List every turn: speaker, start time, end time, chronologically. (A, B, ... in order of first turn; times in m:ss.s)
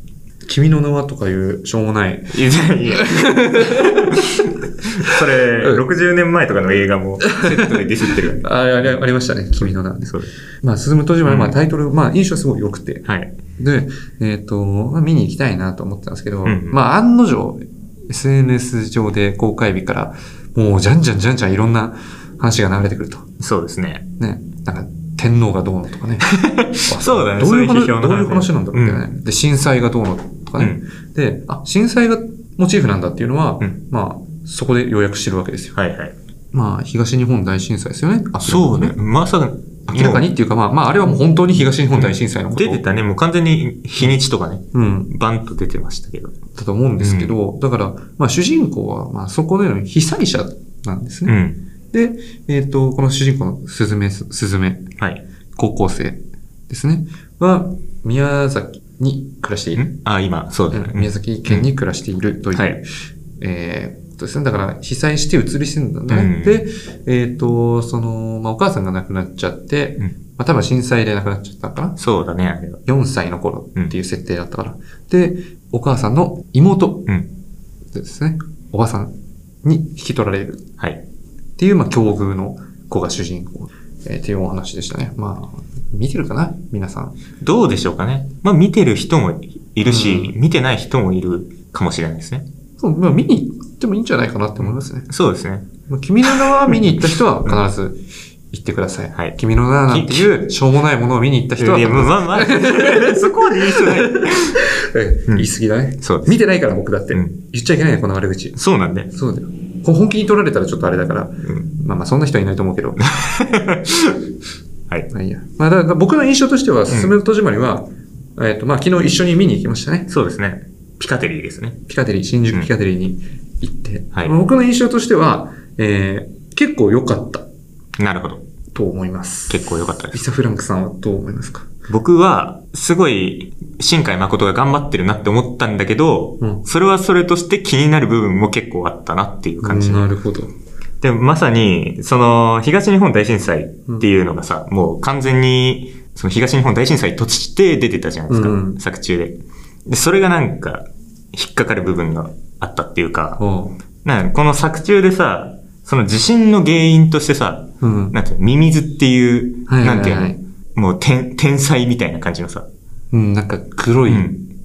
0:00.4-0:04.2 A
0:02.3-0:08.9 B
0:05.0-0:05.8 A
0:07.2-0:13.0 A
0:11.2-0:11.5 B
0:13.0-0:13.3 B
0:13.6-0:23.3 A
0:16.4-0:16.8 B
0:23.4-0:24.0 B
0:24.2-0:26.3 A
0:26.4-0:29.0 B
0:26.8-0:35.8 A
0:35.8-0:36.1 B
0:36.5-0:39.0 A
0:38.4-0:40.2 B
0:39.9-0:42.8 A
0:42.0-0:46.4 B
0:44.7-0:45.1 A
0:46.5-0:51.4 A
0:47.0-0:47.3 B
0:51.2-0:51.6 B
0:51.9-0:54.8 A
0:55.6-0:59.9 A
0:59.7-1:01.7 B
1:00.7-1:02.8 A
1:03.4-1:12.0 A
1:06.1-1:06.6 B
1:12.0-1:12.8 B
1:12.8-1:17.1 A
1:17.9-1:19.1 A
1:19.6-1:20.7 A
1:21.6-1:27.2 A
1:27.4-1:32.4 B
1:29.8-1:30.3 A
1:32.8-1:35.1 A
1:34.6-1:35.7 B
1:35.9-1:38.0 A
1:36.4-1:37.6 B
1:38.5-1:48.6 A
1:39.9-1:40.3 B
1:41.6-1:44.6 B
1:46.0-1:46.4 B
1:48.6-1:49.1 B
1:49.1-1:53.0 A
1:53.0-1:54.2 B
1:55.1-2:00.1 A
1:56.9-1:57.1 B
2:00.1-2:01.8 B
2:01.9-2:07.4 A
2:08.0-2:08.4 B
2:08.7-2:11.7 A
2:09.5-2:10.2 B
2:11.9-2:20.0 B
2:19.6-2:20.5 A
2:21.0-2:33.4 B
2:28.3-2:28.8 A
2:33.4-2:33.8 A
2:34.0-2:42.7 B
2:37.8-2:38.2 A
2:39.7-2:40.4 A
2:43.1-2:44.4 A
2:44.1-2:44.4 B